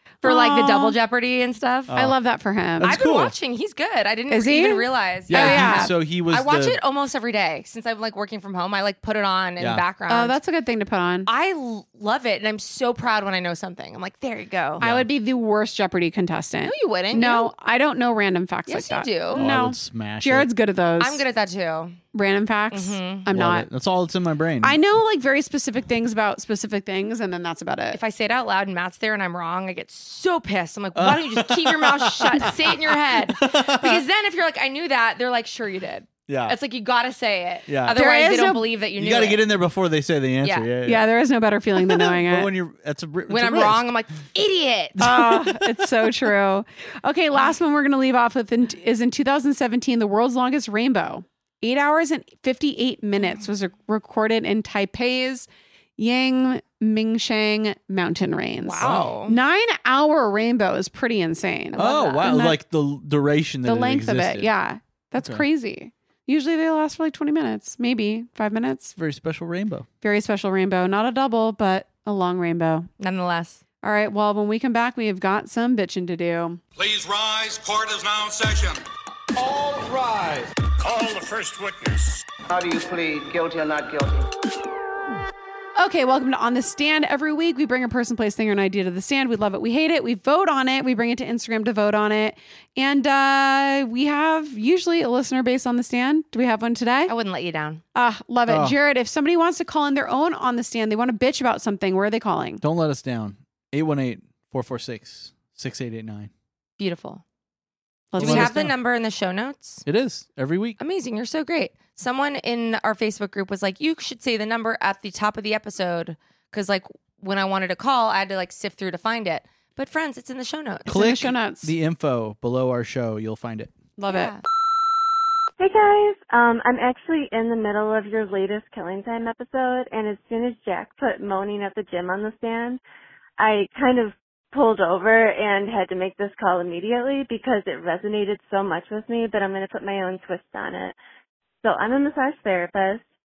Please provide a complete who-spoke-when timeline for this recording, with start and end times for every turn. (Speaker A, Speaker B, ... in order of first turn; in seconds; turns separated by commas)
Speaker A: 0.2-0.9, Speaker B: 0.2-1.9, Speaker C: 1.9-2.2, Speaker A: 1.9-2.9, Speaker C: 2.8-3.3, Speaker B: 2.8-10.4, Speaker A: 4.3-5.9, Speaker C: 5.3-6.8, Speaker A: 10.1-11.3, Speaker B: 11.3-14.8, Speaker C: 14.8-15.1, Speaker A: 14.8-21.2, Speaker B: 16.6-17.5, Speaker B: 18.7-19.4, Speaker C: 19.3-20.5, Speaker B: 21.0-22.0, Speaker A: 22.1-23.7, Speaker B: 22.7-23.2, Speaker C: 23.3-24.8, Speaker A: 24.6-28.0, Speaker B: 27.9-39.4, Speaker C: 30.9-34.0, Speaker C: 36.3-36.5, Speaker C: 37.7-38.0, Speaker A: 37.9-38.6, Speaker C: 39.0-41.1, Speaker B: 40.4-40.7, Speaker A: 40.8-42.5, Speaker C: 41.7-43.9, Speaker B: 43.3-45.0, Speaker C: 45.0-46.1, Speaker A: 45.0-62.6, Speaker B: 58.6-59.4, Speaker C: 58.8-59.1, Speaker C: 61.8-64.5, Speaker A: 63.6-69.0, Speaker C: 65.2-65.4, Speaker C: 69.0-69.9, Speaker A: 70.0-72.9, Speaker B: 73.0-73.6, Speaker A: 73.8-76.6, Speaker D: 76.8-78.8, Speaker E: 79.3-80.7, Speaker D: 80.8-82.2, Speaker E: 82.5-84.3, Speaker A: 85.8-97.1, Speaker B: 97.1-97.8, Speaker A: 97.9-102.6, Speaker C: 98.5-98.8, Speaker C: 102.6-106.3, Speaker B: 106.8-107.2, Speaker A: 108.1-108.6, Speaker B: 108.2-109.8, Speaker C: 108.2-108.7, Speaker C: 109.8-110.8, Speaker B: 110.8-120.9, Speaker A: 120.9-121.7, Speaker C: 120.9-123.7, Speaker A: 124.0-124.3, Speaker B: 124.1-124.4, Speaker F: 125.6-132.8, Speaker F: 133.4-140.9, Speaker F: 141.6-143.0